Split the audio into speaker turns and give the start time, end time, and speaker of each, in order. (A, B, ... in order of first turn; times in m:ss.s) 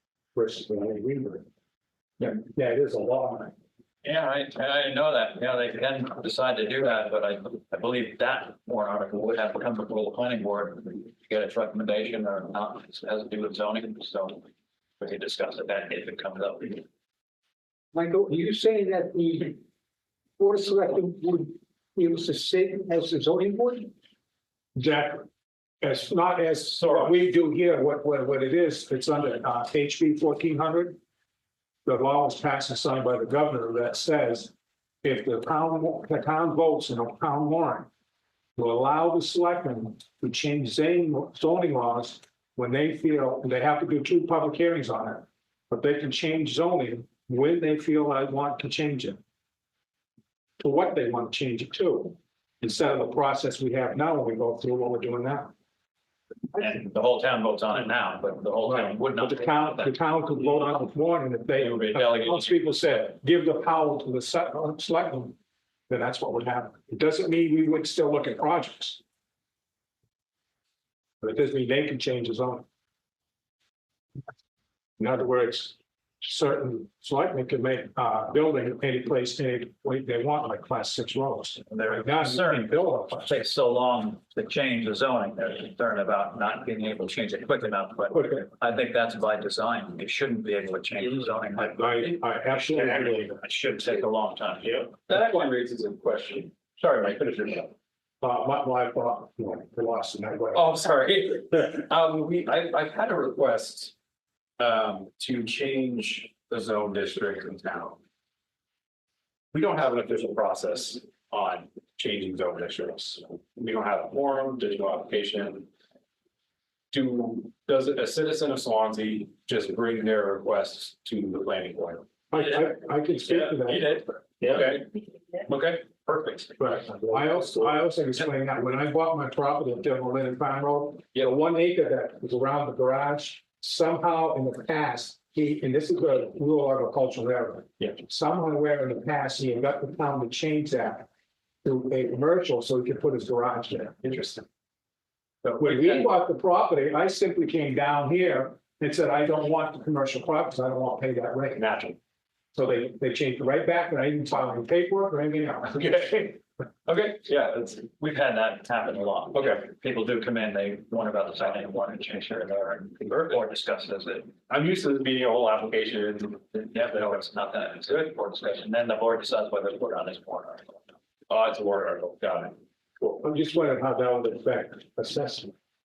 0:00.3-0:01.5 A
0:02.2-0:03.5 A
0:04.0-0:14.5 B
0:15.0-0:16.8 B
0:17.9-0:19.6 C
0:20.4-0:23.9 C
0:24.8-0:25.3 A
0:25.8-0:31.0 A
0:26.8-0:27.2 B
0:31.9-0:34.5 A
0:35.0-0:37.9 A
0:38.6-0:49.2 A
0:50.6-0:55.5 A
0:56.5-1:00.0 B
0:58.6-1:05.4 A
1:01.6-1:02.6 B
1:05.9-1:09.0 A
1:11.2-1:12.7 A
1:15.0-1:23.4 A
1:21.7-1:35.0 B
1:28.1-1:28.4 A
1:31.6-1:33.4 A
1:34.6-1:37.7 D
1:38.2-1:40.7 A
1:40.5-1:43.9 D
1:44.6-1:48.0 D
1:49.5-1:55.7 D
1:56.9-2:02.4 D
2:02.3-2:04.0 A
2:03.2-2:04.9 D
2:05.5-2:07.8 D
2:06.6-2:21.1 A
2:21.6-2:24.1 A
2:24.0-2:24.4 D
2:25.4-2:26.1 D
2:25.6-2:31.6 A
2:31.6-2:32.0 D
2:32.5-2:36.4 A
2:36.9-2:37.8 D
2:37.8-2:44.3 B
2:39.3-2:39.6 D
2:43.0-2:43.4 D
2:44.5-2:47.2 D
2:46.7-2:50.8 B
2:51.3-2:52.5 D
2:53.2-2:55.5 A